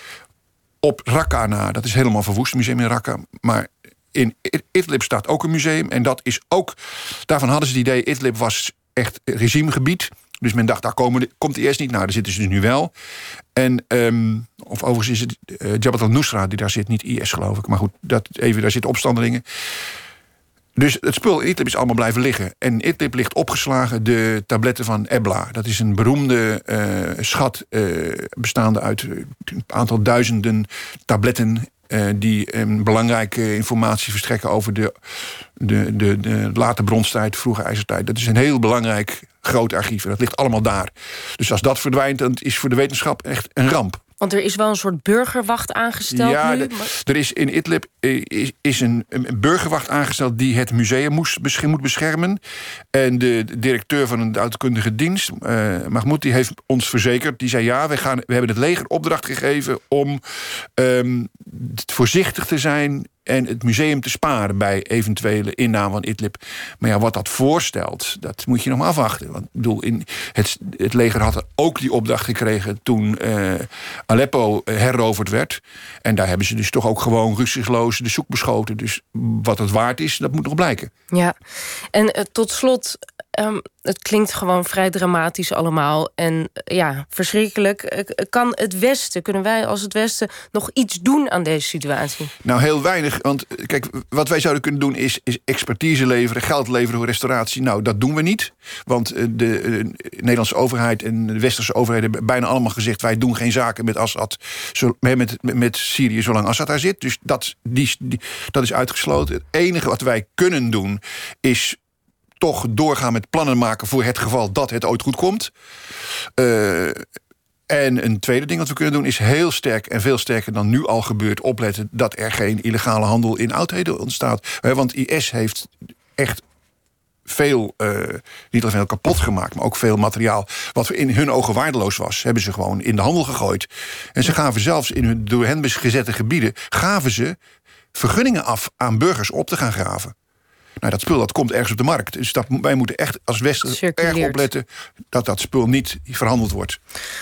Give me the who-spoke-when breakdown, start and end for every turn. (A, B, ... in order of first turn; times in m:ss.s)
0:00.8-0:12.9 A
0:13.5-0:19.4 A
0:20.8-0:34.9 A
0:35.6-0:44.0 A
0:44.2-0:46.9 B
0:46.1-0:52.4 A
0:52.9-1:20.9 A
1:21.1-1:21.4 B
1:21.9-1:32.3 B
1:32.4-1:51.8 A
1:52.4-1:55.5 A
1:56.4-1:57.0 A
1:57.7-2:06.4 A
2:07.2-2:17.4 A
2:17.9-2:20.1 A
2:20.8-2:26.8 A
2:23.6-2:24.5 B